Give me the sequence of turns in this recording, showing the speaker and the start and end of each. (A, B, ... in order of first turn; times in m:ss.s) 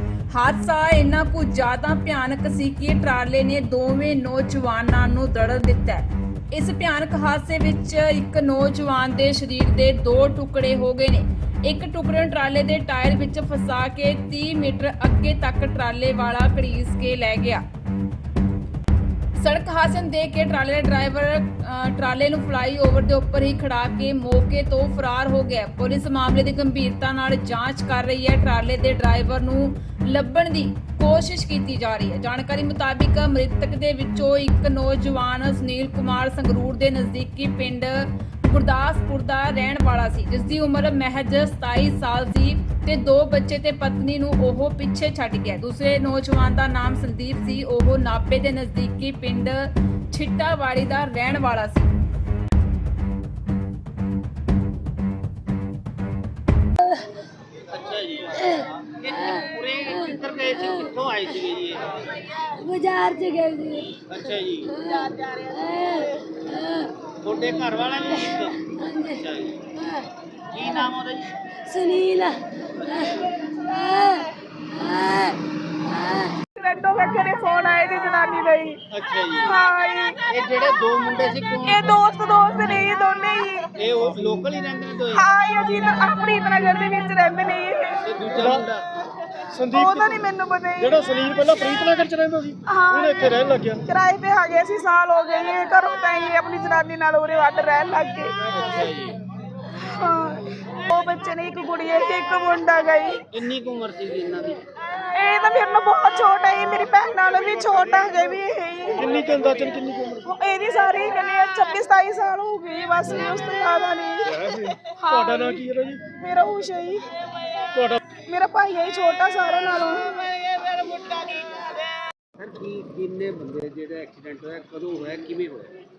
0:00.3-0:17.6 A
0:19.4-0:51.9 A
0:57.7-1:02.2 B
0:59.2-1:00.2 C
1:02.3-1:04.1 C
1:04.1-1:04.8 B
1:04.6-1:06.9 C
1:07.1-1:09.8 B
1:08.4-1:09.2 C
1:09.8-1:10.1 C
1:10.5-1:11.4 B
1:11.5-1:16.4 C
1:16.6-1:18.8 D
1:18.9-1:19.6 B
1:19.4-1:20.2 D
1:20.3-1:21.9 B
1:21.6-1:23.7 D
1:23.8-1:25.3 B
1:25.1-1:28.0 D
1:28.0-1:28.8 B
1:28.3-1:28.7 E
1:29.5-1:30.2 E
1:29.7-1:31.0 D
1:30.8-1:33.8 E
1:32.7-1:38.3 D
1:38.5-1:39.2 B
1:39.7-1:43.2 D
1:43.3-1:44.6 B
1:45.2-1:49.1 D
1:48.9-1:50.3 E
1:50.3-1:57.0 D
1:54.4-1:56.0 E
1:57.7-1:58.0 E
1:58.2-2:00.3 D
2:00.9-2:01.5 B
2:02.4-2:05.8 B